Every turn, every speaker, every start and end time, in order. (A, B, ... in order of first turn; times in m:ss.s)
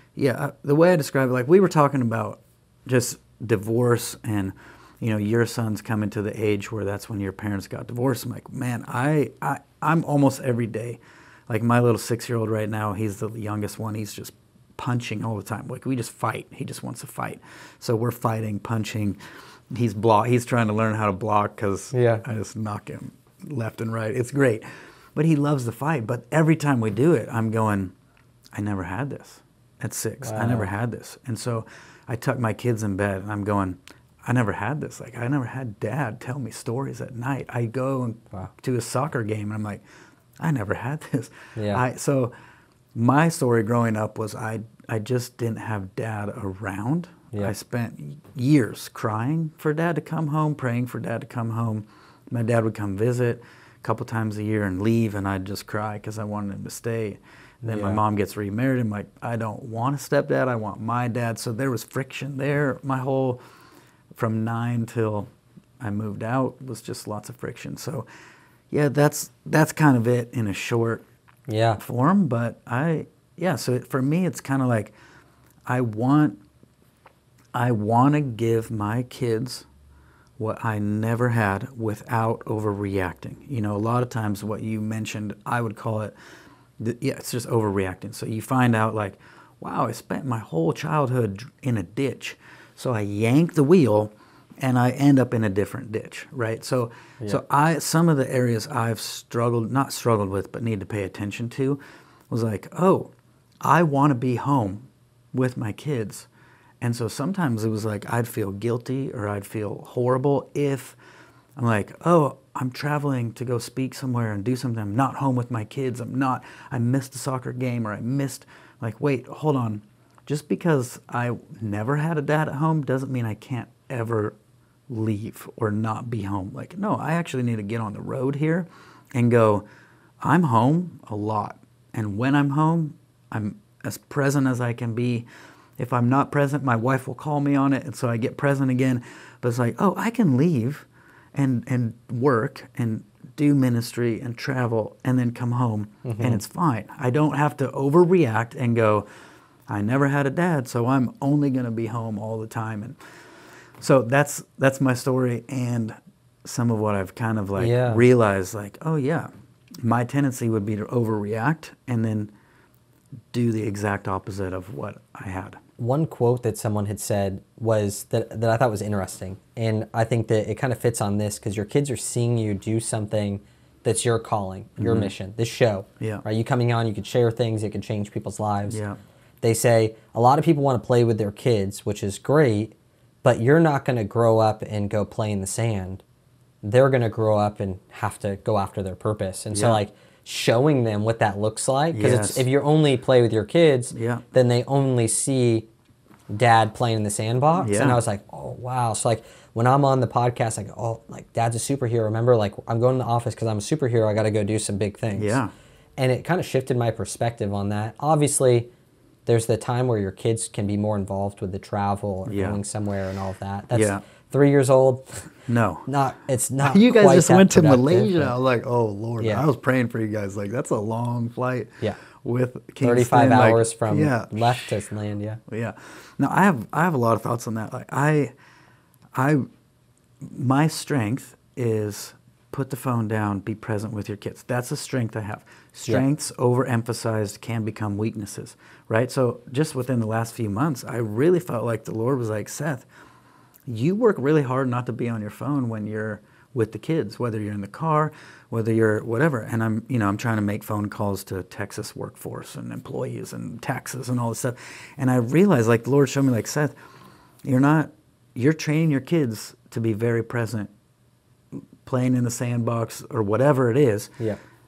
0:00.2-0:19.2 A
0:19.7-0:27.9 A
0:21.9-0:22.2 B
0:28.5-0:39.8 A
0:30.2-0:30.7 B
0:40.4-0:42.3 A
0:41.6-0:41.8 B
0:42.9-1:03.4 A
0:57.6-0:58.0 B
1:04.1-1:08.0 A
1:08.7-1:11.0 A
1:11.5-1:11.8 B
1:11.8-1:14.9 A
1:15.7-1:16.4 A
1:17.5-1:19.7 A
1:20.4-1:26.1 A
1:26.8-1:46.3 A
1:46.8-1:51.0 A
1:51.6-2:04.4 A
2:04.9-2:09.6 A
2:10.2-2:15.2 A
2:15.8-2:29.0 A
2:26.0-2:26.4 B
2:29.7-2:33.0 A
2:33.8-2:39.3 A
2:37.6-2:38.0 B
2:39.8-2:42.3 A
2:43.3-2:45.6 A
2:45.8-2:58.8 B
2:54.8-2:55.1 A
2:58.7-2:59.0 A
2:59.4-3:06.0 B
3:06.6-3:15.7 B
3:09.5-3:09.8 A
3:11.9-3:12.4 A
3:13.9-3:14.2 A
3:16.3-3:25.4 B
3:17.6-3:18.0 A
3:25.1-3:25.5 A
3:26.0-3:28.7 B
3:29.2-3:35.3 B
3:32.3-3:32.6 A
3:33.7-3:34.0 A
3:35.4-3:35.9 A
3:35.9-3:38.3 B
3:36.6-3:44.8 A
3:39.2-3:39.4 B
3:42.8-3:45.4 B
3:45.5-3:48.3 A
3:49.1-3:49.4 A
3:50.2-4:02.9 A
4:03.7-4:16.8 A
4:17.4-4:20.7 A
4:21.5-4:24.2 A